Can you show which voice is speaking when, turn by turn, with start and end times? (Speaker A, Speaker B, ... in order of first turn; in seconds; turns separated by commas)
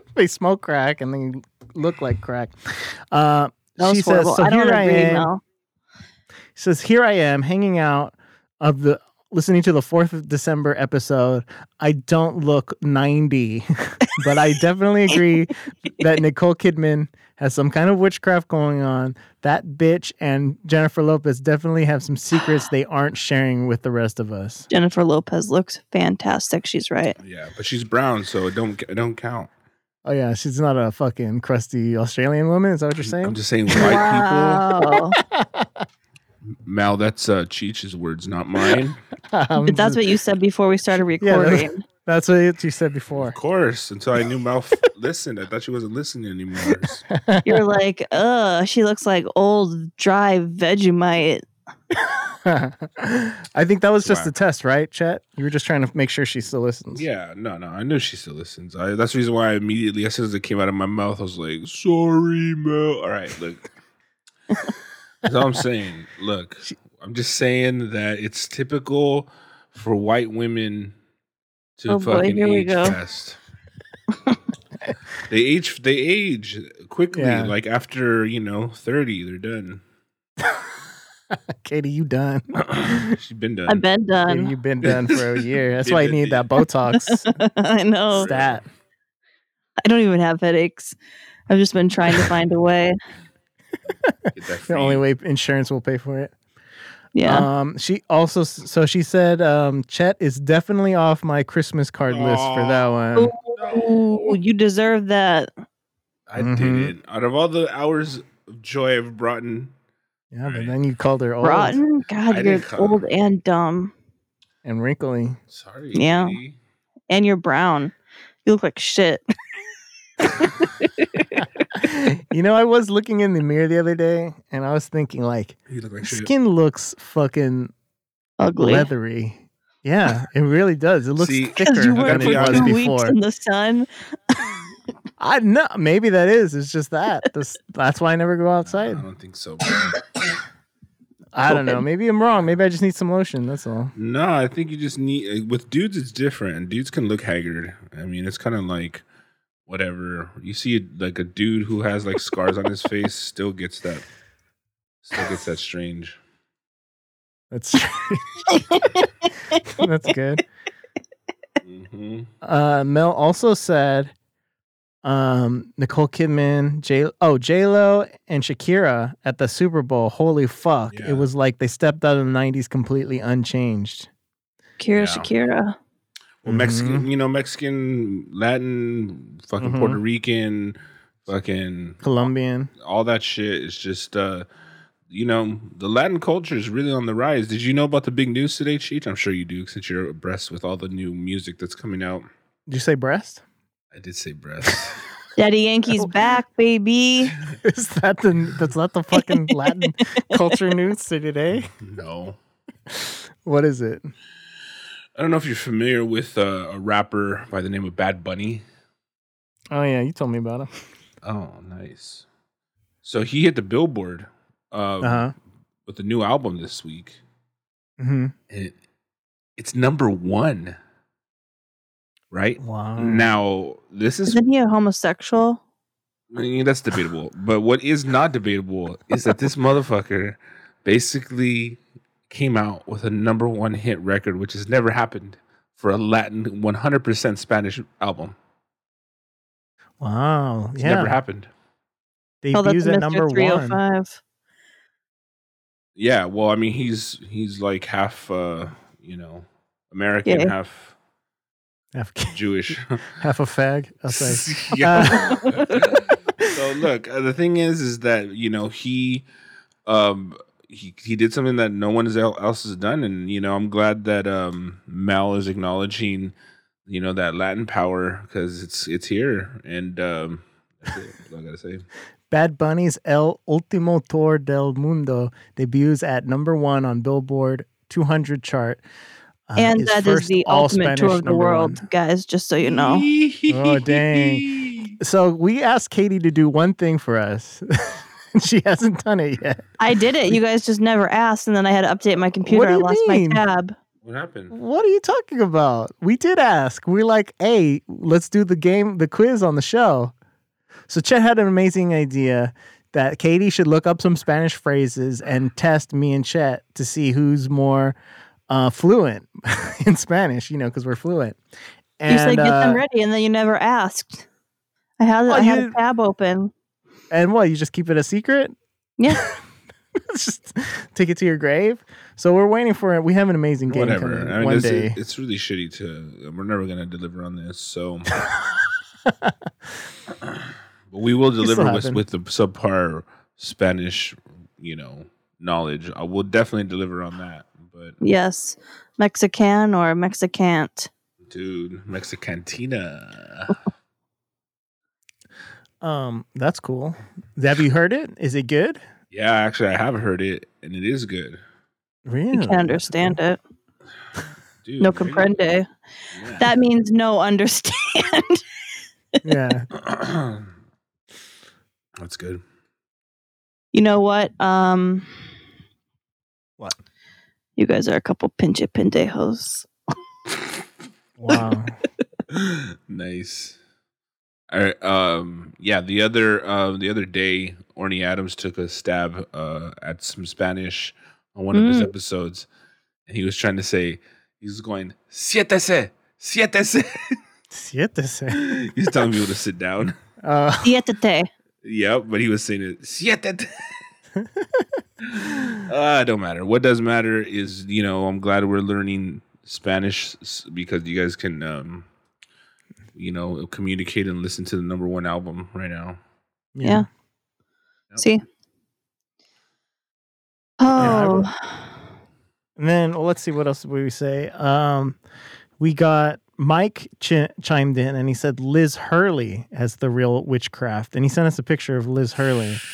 Speaker A: 0.1-5.3, Speaker B: 3.8-5.4, Speaker A: 6.6-24.7, Speaker B: 24.7-27.2, Speaker C: 27.2-29.5, Speaker A: 30.1-34.0, Speaker C: 33.0-34.6, Speaker B: 33.8-35.2, Speaker A: 34.9-35.9, Speaker C: 36.6-39.0, Speaker A: 39.3-40.0, Speaker B: 39.6-41.8, Speaker A: 41.1-43.4, Speaker C: 43.1-47.0, Speaker A: 46.6-47.6, Speaker B: 47.5-51.4, Speaker A: 52.3-57.0, Speaker C: 54.0-54.3, Speaker C: 56.9-63.7, Speaker C: 65.2-70.9, Speaker C: 71.8-73.4, Speaker B: 71.9-73.0, Speaker C: 75.3-79.8, Speaker A: 77.1-77.5, Speaker A: 80.4-80.7, Speaker A: 81.3-83.2, Speaker C: 82.5-83.8, Speaker B: 83.7-84.5, Speaker A: 84.3-87.3, Speaker C: 84.8-86.5, Speaker B: 86.9-88.3, Speaker C: 88.1-88.6, Speaker A: 88.2-88.6, Speaker B: 89.8-91.0, Speaker B: 91.5-93.0, Speaker A: 94.0-96.3, Speaker C: 94.3-95.0, Speaker B: 97.2-97.5, Speaker A: 97.2-103.3, Speaker C: 102.1-103.0, Speaker B: 103.2-105.5, Speaker C: 103.5-104.4, Speaker C: 106.3-109.7, Speaker A: 106.4-106.9, Speaker A: 110.3-111.8, Speaker C: 110.5-110.8, Speaker B: 111.4-113.9, Speaker C: 112.3-113.0, Speaker A: 114.6-115.4, Speaker C: 115.5-116.6, Speaker B: 115.9-116.4, Speaker B: 117.1-117.9, Speaker B: 118.5-119.2, Speaker B: 120.4-121.5, Speaker A: 121.8-127.7, Speaker C: 125.7-126.3, Speaker B: 128.4-128.9, Speaker A: 128.6-133.2, Speaker C: 131.2-132.8, Speaker B: 131.6-133.9, Speaker A: 135.2-139.1, Speaker C: 138.7-140.0, Speaker A: 141.3-143.9, Speaker B: 141.5-141.8, Speaker C: 144.0-149.0, Speaker C: 149.7-154.1, Speaker C: 155.0-156.2, Speaker A: 157.5-158.4, Speaker B: 158.5-159.6, Speaker A: 159.7-160.4, Speaker C: 161.6-162.3, Speaker A: 162.4-164.1, Speaker A: 165.0-174.1, Speaker C: 170.9-171.2, Speaker B: 174.8-175.8, Speaker C: 174.9-175.3, Speaker C: 176.4-182.1, Speaker A: 176.5-177.1, Speaker A: 179.6-180.0, Speaker A: 182.0-182.7, Speaker C: 182.8-184.5, Speaker C: 185.1-192.3, Speaker A: 192.7-193.4, Speaker C: 193.9-195.0, Speaker B: 195.4-197.3, Speaker A: 197.6-201.7, Speaker B: 199.2-200.0, Speaker C: 201.8-202.4, Speaker A: 202.9-204.1, Speaker C: 205.2-208.6, Speaker A: 209.7-210.7, Speaker C: 211.2-212.3, Speaker C: 213.0-215.3, Speaker A: 215.0-215.3, Speaker C: 215.9-217.2, Speaker A: 218.0-218.3, Speaker C: 219.6-220.8, Speaker C: 222.3-224.4, Speaker A: 222.6-223.3, Speaker B: 224.3-225.6, Speaker C: 226.3-238.4, Speaker A: 240.0-241.2, Speaker C: 240.8-241.5, Speaker A: 242.4-243.8, Speaker B: 242.5-244.2, Speaker C: 246.0-250.9, Speaker B: 250.2-250.5, Speaker A: 251.9-256.5, Speaker C: 252.3-253.1, Speaker C: 254.1-259.3, Speaker C: 259.9-266.3, Speaker C: 266.9-271.9, Speaker A: 272.3-278.8, Speaker A: 279.5-281.8, Speaker B: 279.6-283.1, Speaker C: 282.6-285.0, Speaker A: 283.5-284.5, Speaker A: 285.0-289.6, Speaker B: 289.8-293.8, Speaker A: 292.4-293.4, Speaker C: 294.0-294.5, Speaker A: 294.5-300.1, Speaker A: 300.9-308.0, Speaker A: 308.5-311.4, Speaker A: 312.0-312.8, Speaker B: 312.1-314.3, Speaker B: 315.0-316.5, Speaker A: 315.3-315.8, Speaker A: 317.1-318.6, Speaker B: 319.0-319.3, Speaker A: 319.1-319.4, Speaker A: 320.0-325.0, Speaker C: 323.7-328.2, Speaker A: 329.0-329.7, Speaker C: 330.2-338.0, Speaker A: 331.4-332.0, Speaker B: 338.0-340.9, Speaker C: 341.3-343.6, Speaker A: 345.8-348.8, Speaker C: 349.1-351.4, Speaker A: 352.1-353.2, Speaker B: 352.3-353.4, Speaker C: 354.6-355.3, Speaker B: 354.8-355.7, Speaker C: 356.1-356.4, Speaker B: 356.4-358.4, Speaker A: 359.2-359.7, Speaker C: 359.7-360.5, Speaker C: 362.0-362.4, Speaker B: 363.7-365.1, Speaker B: 367.6-369.7, Speaker A: 371.2-371.8, Speaker C: 372.3-373.6, Speaker C: 374.5-382.5, Speaker B: 381.5-381.9, Speaker C: 383.1-387.2, Speaker A: 387.5-388.4, Speaker C: 388.3-389.9, Speaker A: 390.2-390.8, Speaker B: 390.6-391.3, Speaker C: 391.6-393.8, Speaker A: 394.2-394.7, Speaker C: 395.0-401.9, Speaker C: 403.0-406.0, Speaker A: 406.6-406.9, Speaker B: 410.6-411.5, Speaker A: 410.8-411.3, Speaker A: 412.6-415.0, Speaker A: 415.6-422.6